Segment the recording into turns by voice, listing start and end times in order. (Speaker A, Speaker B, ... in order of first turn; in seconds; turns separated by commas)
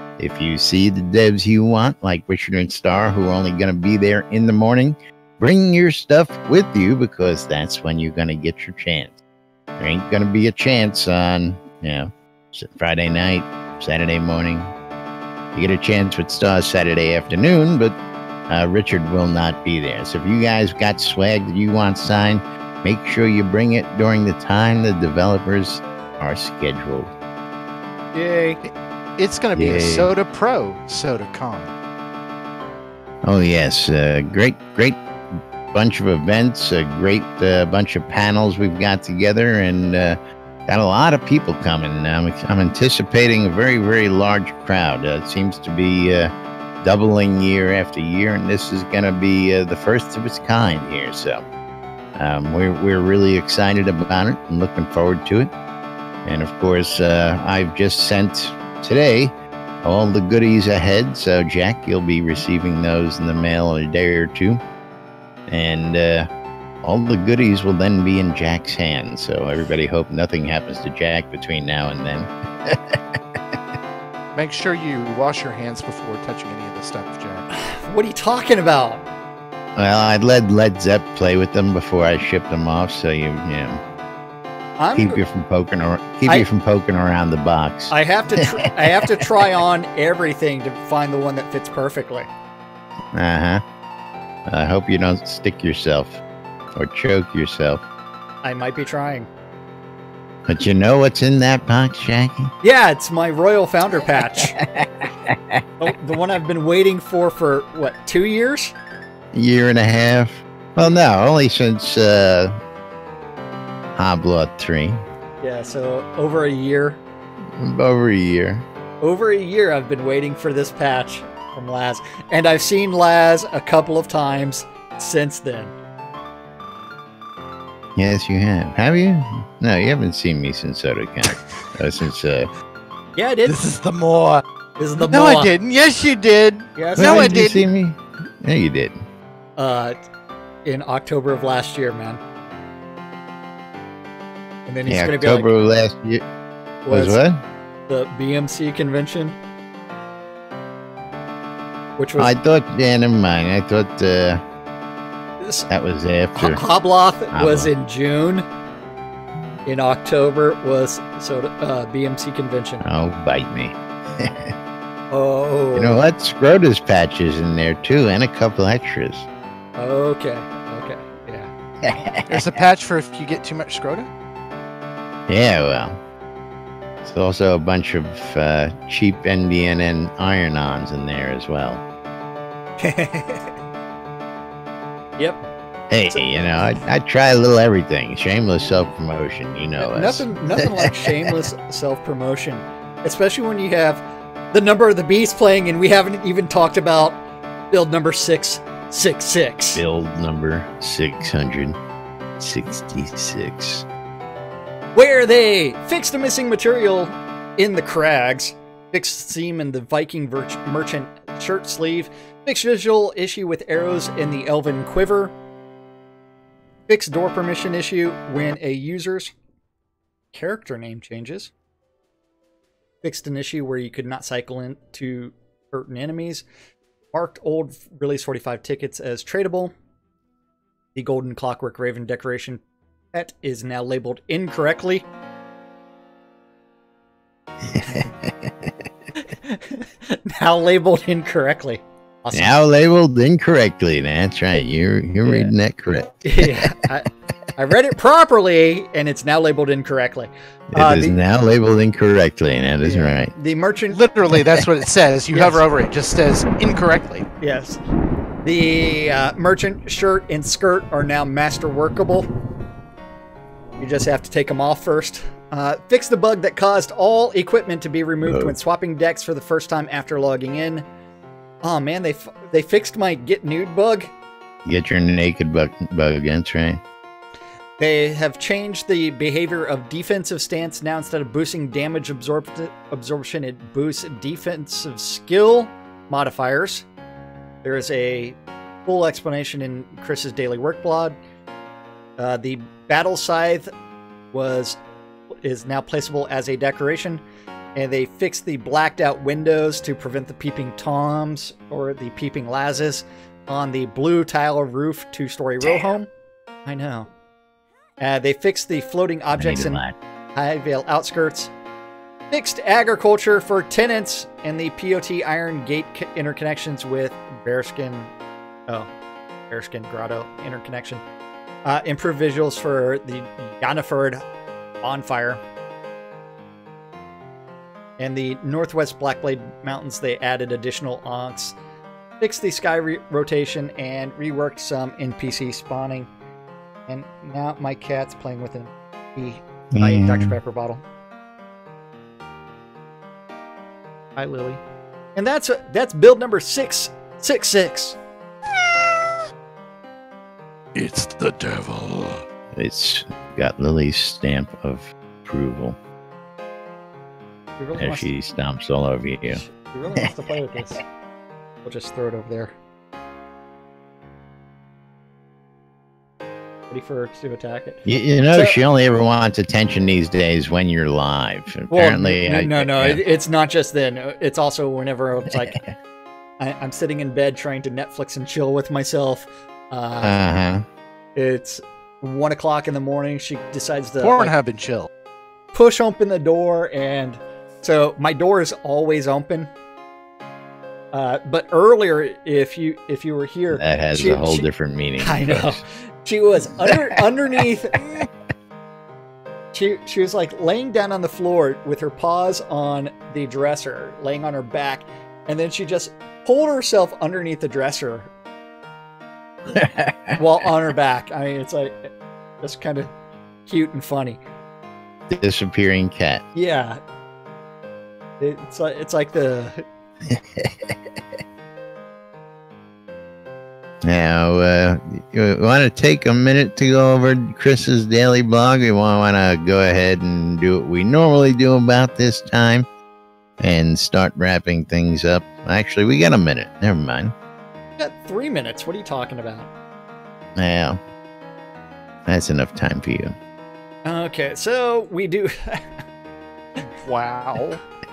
Speaker A: 0.2-9.2, Speaker A: 9.8-14.7, Speaker A: 15.5-18.0, Speaker A: 18.5-27.1, Speaker B: 28.1-31.7, Speaker A: 29.5-30.1, Speaker A: 33.2-35.0, Speaker A: 35.7-51.4, Speaker A: 52.2-55.5, Speaker A: 56.2-64.6, Speaker A: 65.5-66.3, Speaker A: 66.8-73.4, Speaker B: 74.3-77.5, Speaker C: 77.5-79.0, Speaker A: 79.8-83.8, Speaker C: 84.8-85.2, Speaker A: 85.0-89.2, Speaker C: 87.9-92.3, Speaker A: 93.1-93.6, Speaker A: 94.5-96.2, Speaker A: 96.8-97.8, Speaker C: 98.4-99.3, Speaker A: 100.5-102.5, Speaker C: 102.6-104.5, Speaker A: 104.3-105.6, Speaker C: 105.8-108.7, Speaker A: 109.3-112.6, Speaker A: 114.0-115.0, Speaker C: 115.4-117.0, Speaker A: 117.5-118.7, Speaker C: 119.0-125.7, Speaker A: 128.0-132.5, Speaker C: 133.2-133.7, Speaker B: 133.5-134.4, Speaker C: 134.8-135.5, Speaker B: 135.0-137.6, Speaker C: 136.8-137.4, Speaker A: 137.0-139.0, Speaker C: 139.6-140.0, Speaker C: 140.7-142.2, Speaker C: 144.7-145.5, Speaker A: 144.9-146.2, Speaker C: 146.8-147.2, Speaker A: 146.9-147.4, Speaker C: 147.9-149.4, Speaker C: 152.0-152.3, Speaker A: 152.2-154.4, Speaker C: 155.4-155.7, Speaker A: 155.7-156.6, Speaker C: 156.4-158.5, Speaker A: 157.3-157.7, Speaker C: 159.7-162.8, Speaker A: 162.8-164.5, Speaker C: 165.1-166.0, Speaker A: 165.7-169.3, Speaker C: 169.8-171.5, Speaker A: 171.8-172.5, Speaker B: 172.3-174.1, Speaker A: 175.3-176.0, Speaker A: 177.0-181.8, Speaker C: 182.8-183.6, Speaker C: 185.2-185.4, Speaker A: 185.9-191.1, Speaker C: 186.1-186.8, Speaker C: 189.8-199.8, Speaker A: 199.8-201.8, Speaker A: 202.4-203.9, Speaker C: 204.9-215.3, Speaker C: 216.9-219.3, Speaker C: 220.3-221.5, Speaker C: 223.0-226.5, Speaker C: 227.1-229.7, Speaker C: 230.9-232.6, Speaker C: 233.1-235.1, Speaker A: 237.7-238.7, Speaker C: 239.2-242.6, Speaker A: 242.3-246.7, Speaker C: 245.2-245.5, Speaker C: 246.2-251.2, Speaker A: 250.7-253.3, Speaker C: 252.8-254.0, Speaker B: 253.9-257.3, Speaker C: 255.3-255.7, Speaker C: 257.4-257.8, Speaker C: 258.4-262.3, Speaker C: 263.8-270.9, Speaker A: 268.2-268.6, Speaker C: 271.6-274.1, Speaker A: 274.6-276.8, Speaker C: 277.8-286.9, Speaker C: 287.6-291.2, Speaker C: 292.2-293.7, Speaker C: 294.3-294.8, Speaker C: 295.3-297.2, Speaker C: 297.8-306.1, Speaker C: 306.7-307.1, Speaker C: 308.0-309.8, Speaker A: 309.4-310.0, Speaker C: 310.4-311.5, Speaker C: 312.3-318.1, Speaker C: 319.5-321.0, Speaker C: 321.6-324.2, Speaker C: 324.8-325.4, Speaker C: 328.0-331.6, Speaker C: 332.2-336.1, Speaker C: 336.9-340.8, Speaker A: 339.7-340.4, Speaker C: 344.2-344.6, Speaker C: 345.2-348.0, Speaker B: 350.8-352.2, Speaker A: 352.5-355.8, Speaker C: 357.6-358.1, Speaker A: 357.8-359.4, Speaker C: 359.3-360.8, Speaker C: 361.6-362.5, Speaker C: 366.7-367.8, Speaker A: 367.9-373.0, Speaker C: 368.3-368.6, Speaker C: 371.7-375.6, Speaker C: 376.4-380.1, Speaker A: 380.0-380.6, Speaker C: 381.1-384.3, Speaker B: 384.0-384.9, Speaker C: 385.5-389.5, Speaker C: 390.9-394.5, Speaker A: 393.5-395.6, Speaker C: 395.0-398.0, Speaker C: 399.5-408.1, Speaker A: 409.5-410.2, Speaker C: 410.2-412.9, Speaker C: 413.5-414.2, Speaker A: 415.1-416.2, Speaker C: 416.3-416.8, Speaker C: 418.2-419.6, Speaker A: 420.1-420.8, Speaker A: 423.8-432.7, Speaker A: 433.4-437.1, Speaker C: 437.8-439.5, Speaker A: 440.4-440.8, Speaker A: 442.1-443.2, Speaker C: 443.9-445.8, Speaker B: 446.8-447.6